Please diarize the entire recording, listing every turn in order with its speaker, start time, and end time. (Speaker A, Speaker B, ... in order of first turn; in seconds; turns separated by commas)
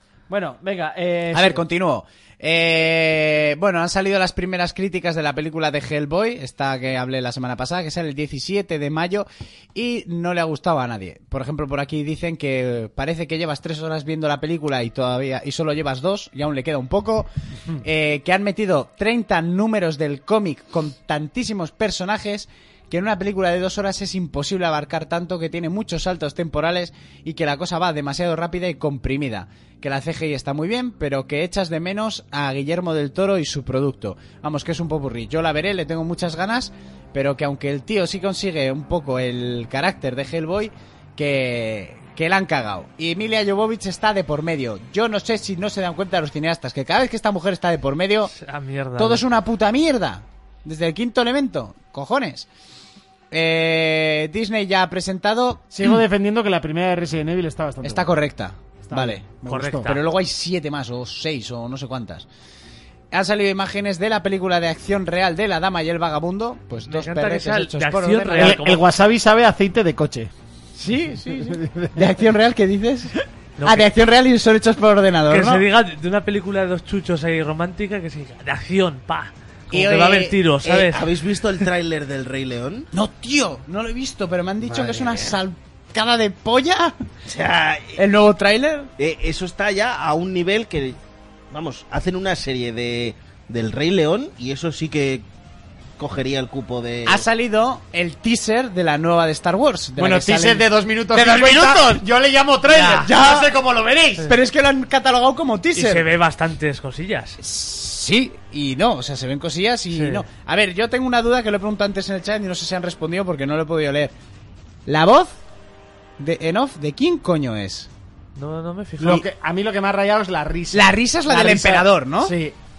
Speaker A: 0.3-1.6, Speaker B: 1.3-48.3, Speaker C: 48.3-49.2, Speaker B: 49.0-52.5, Speaker B: 53.3-56.0, Speaker A: 55.7-58.1, Speaker B: 57.8-62.3, Speaker A: 58.9-59.9, Speaker C: 59.5-60.0, Speaker B: 63.1-68.6, Speaker C: 66.8-68.8, Speaker A: 68.4-70.3, Speaker B: 70.8-75.7, Speaker A: 71.5-72.0, Speaker C: 73.6-73.9, Speaker C: 75.3-81.1, Speaker B: 79.7-80.4, Speaker D: 80.6-82.9, Speaker B: 82.9-86.9, Speaker D: 84.6-85.4, Speaker D: 87.2-88.0, Speaker B: 88.0-88.9, Speaker D: 89.0-91.0, Speaker D: 91.5-95.2, Speaker D: 96.0-97.2, Speaker B: 97.0-102.0, Speaker A: 100.0-104.3, Speaker C: 102.7-103.1, Speaker B: 102.8-103.5, Speaker B: 104.2-106.1, Speaker C: 105.7-107.4, Speaker B: 107.4-114.1, Speaker C: 109.9-110.2, Speaker B: 114.8-115.3, Speaker B: 116.2-117.9, Speaker C: 118.3-119.2, Speaker A: 119.0-122.5, Speaker B: 120.7-122.3